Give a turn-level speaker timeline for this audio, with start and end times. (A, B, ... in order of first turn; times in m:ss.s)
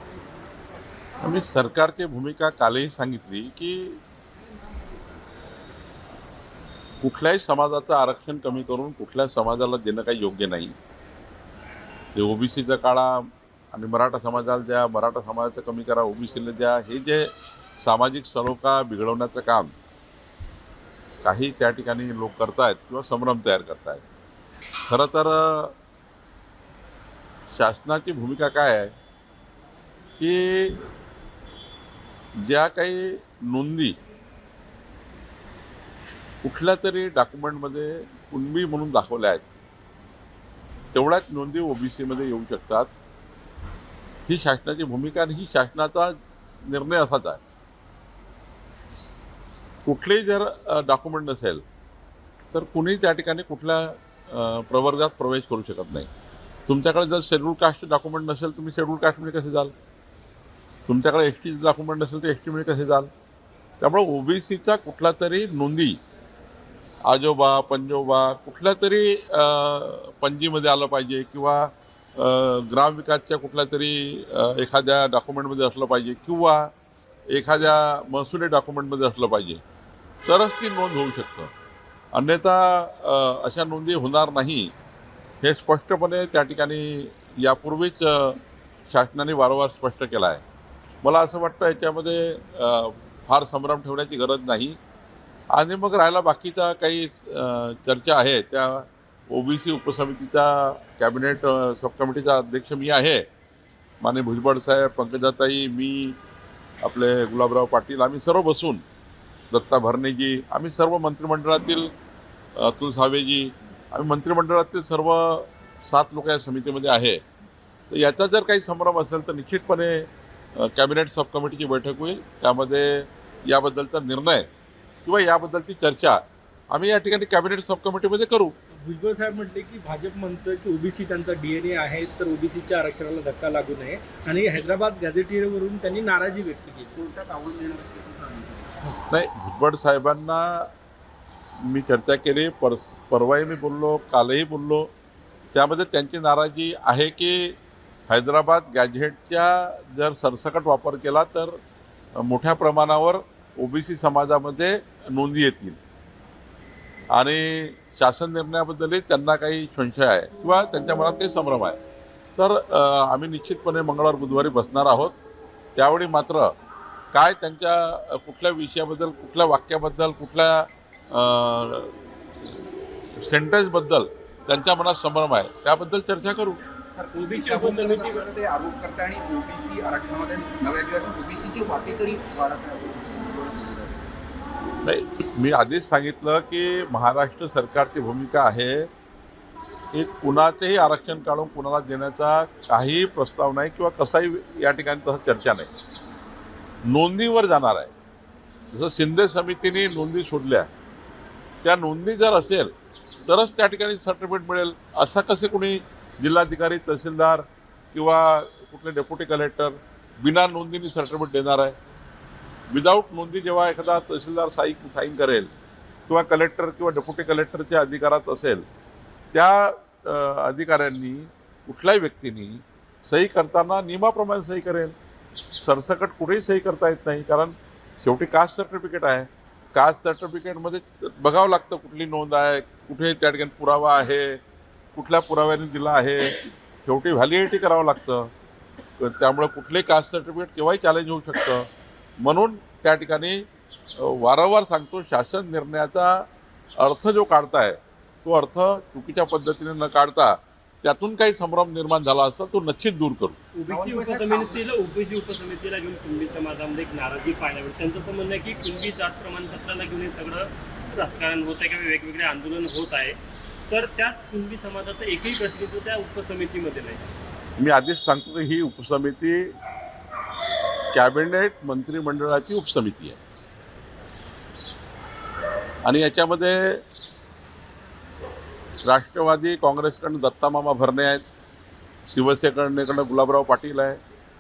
0:01.2-0:04.0 A
0:07.0-0:10.8 A
0:12.2-0:19.7 A
0:21.2-0:24.0 A
0:24.9-0:25.7 A
0:27.5-0:28.9 A
0:30.2-0:30.8 A
0:32.4-0:34.0 A
0:36.4-0:39.4 A
0:40.9-0:42.9 A
0:44.3-0:47.4 A
0:49.8-0:51.6 A
0:52.5-0:56.1 A
0:56.7-0:59.7 A
1:00.9-1:03.1 A
1:03.8-1:06.0 A
1:07.1-1:16.7 A
1:17.3-1:19.6 A
1:20.3-1:21.5 A
1:22.1-1:24.7 A
1:25.4-1:30.4 A
1:31.0-1:34.8 A
1:35.5-1:43.3 A
1:44.0-1:46.2 A
1:46.8-1:48.8 A
1:49.5-1:51.9 A
1:52.6-1:57.2 A
1:57.9-2:04.5 A
2:05.0-2:06.2 A
2:06.7-2:08.6 A
2:08.8-2:16.9 B
2:16.9-2:18.8 C
2:19.1-2:20.7 A
2:21.6-2:24.9 A
2:25.5-2:27.6 A
2:28.1-2:31.6 A
2:32.2-2:35.8 A
2:37.1-2:41.8 A
2:42.4-2:45.2 A
2:45.8-2:46.5 A
2:47.1-2:51.9 A
2:53.2-2:56.6 A
2:56.9-3:04.1 C
2:57.1-2:58.3 D
3:04.8-3:08.9 A
3:09.9-3:15.7 A
3:16.9-3:17.9 A
3:18.7-3:20.7 A
3:21.6-3:22.7 A
3:23.3-3:31.8 A
3:32.7-3:35.5 A
3:36.1-3:38.6 A
3:39.3-3:45.0 A
3:45.6-3:54.4 A
3:55.0-3:58.3 A
3:59.0-4:01.7 A
4:02.2-4:06.3 A
4:06.8-4:13.4 A
4:13.6-4:14.0 B
4:13.7-4:14.6 C
4:13.9-4:23.2 D
4:23.7-4:27.1 D
4:27.6-4:29.5 A
4:30.9-4:33.2 A
4:35.8-4:36.8 A
4:38.8-4:41.2 A
4:42.1-4:44.0 A